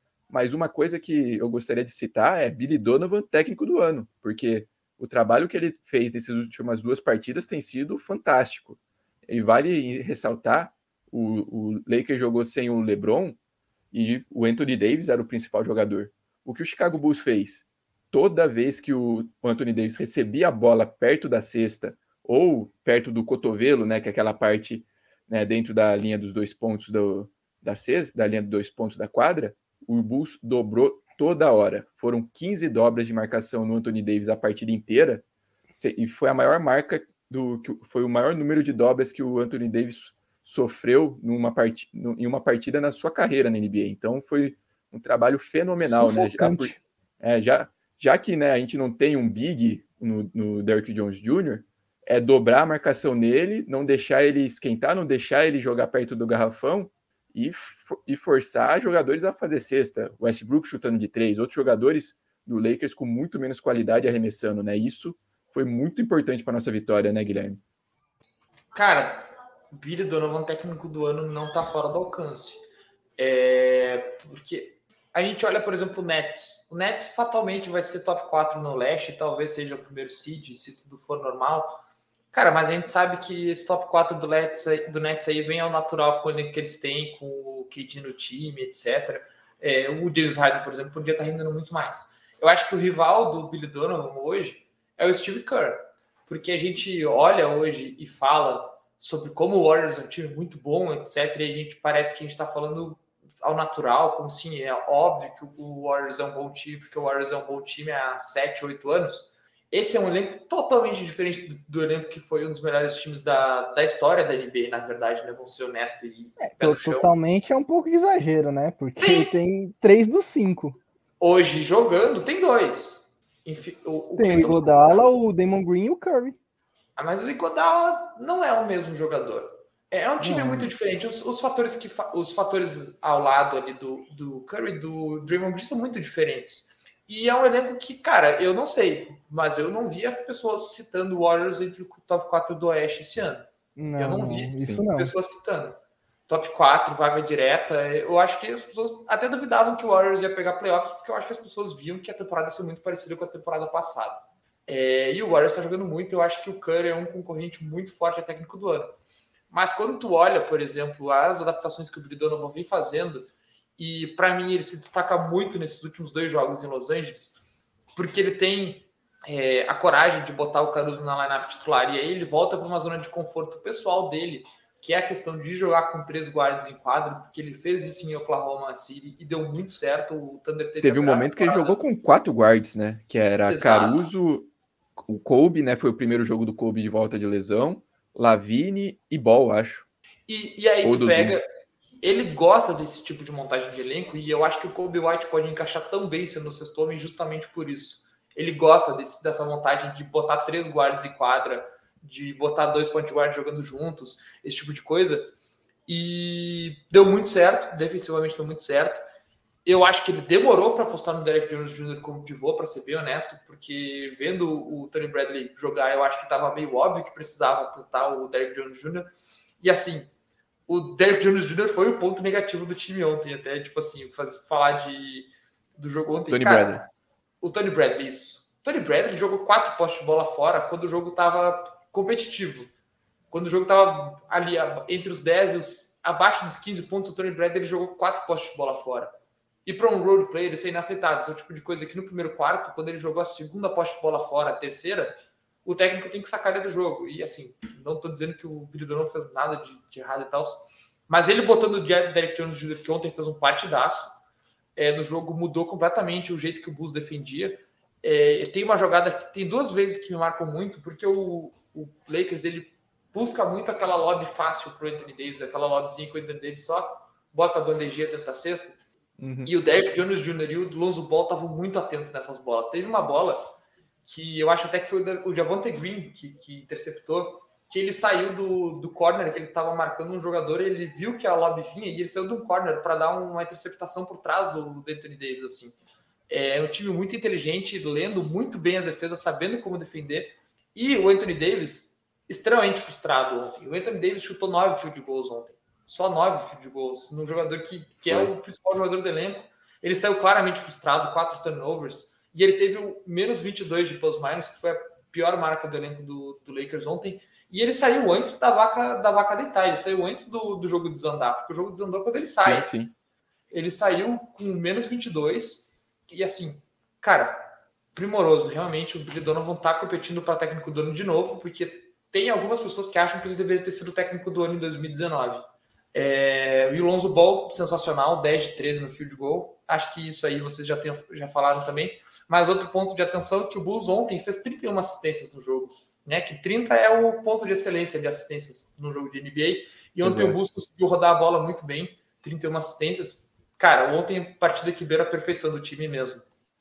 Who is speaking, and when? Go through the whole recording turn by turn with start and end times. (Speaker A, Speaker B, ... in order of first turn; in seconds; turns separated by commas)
Speaker A: 0.3-13.4, Speaker A: 13.9-35.2, Speaker A: 35.8-67.6, Speaker B: 45.8-46.8, Speaker C: 68.7-72.6, Speaker C: 73.2-81.8, Speaker C: 82.3-117.1, Speaker B: 116.4-120.8, Speaker C: 119.0-119.3, Speaker C: 121.2-125.0, Speaker B: 124.2-126.4, Speaker C: 127.0-145.8, Speaker B: 130.2-130.7, Speaker B: 143.8-145.1, Speaker C: 146.3-158.9, Speaker C: 159.5-167.4, Speaker C: 168.0-181.8, Speaker A: 180.8-184.5, Speaker C: 183.5-184.1, Speaker A: 185.0-189.9, Speaker C: 190.3-191.4, Speaker A: 190.8-191.4, Speaker C: 192.0-205.3, Speaker C: 205.9-209.0, Speaker C: 209.7-219.1, Speaker C: 219.6-220.1, Speaker C: 220.7-226.9, Speaker A: 226.3-226.8, Speaker C: 227.4-232.7, Speaker C: 233.3-239.1, Speaker C: 239.7-254.1, Speaker C: 254.8-268.8, Speaker A: 269.2-269.5, Speaker C: 269.5-273.5, Speaker C: 274.1-285.8, Speaker C: 286.3-312.7, Speaker A: 298.0-298.3, Speaker A: 312.4-312.9, Speaker C: 313.5-317.4, Speaker C: 317.9-346.2, Speaker A: 340.0-340.4